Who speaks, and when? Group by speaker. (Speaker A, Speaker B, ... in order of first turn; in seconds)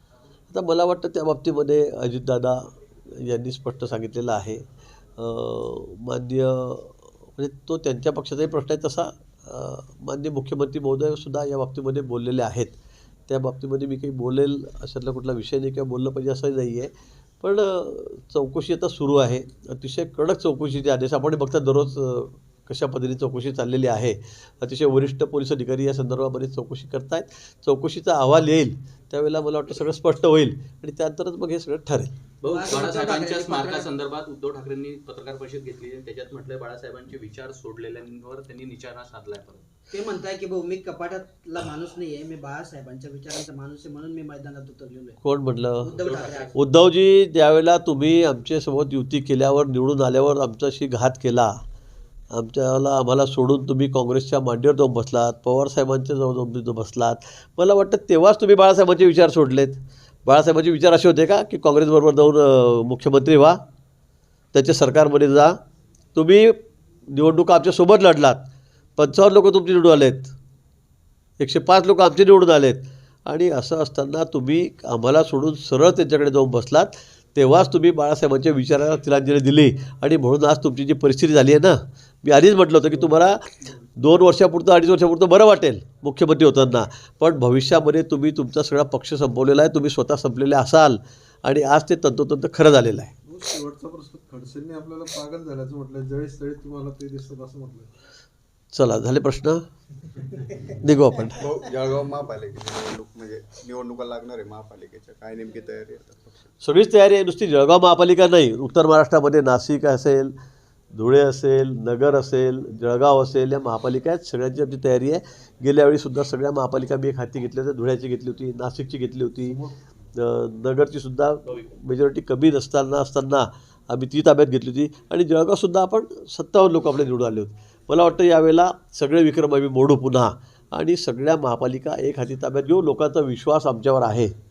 Speaker A: 0.5-4.6, 5.2-12.8, 13.3-32.1, 45.2-45.9, 46.5-51.6, 52.3-63.6, 64.5-65.6, 66.1-70.3, 71.4-93.1, 98.7-99.6, 100.7-101.5, 106.6-110.3, 110.9-134.3
Speaker B: 32.4-39.6, 46.0-46.5
Speaker C: 32.5-33.9, 39.9-45.2, 45.8-46.5
Speaker D: 93.2-97.9
Speaker E: 101.4-106.4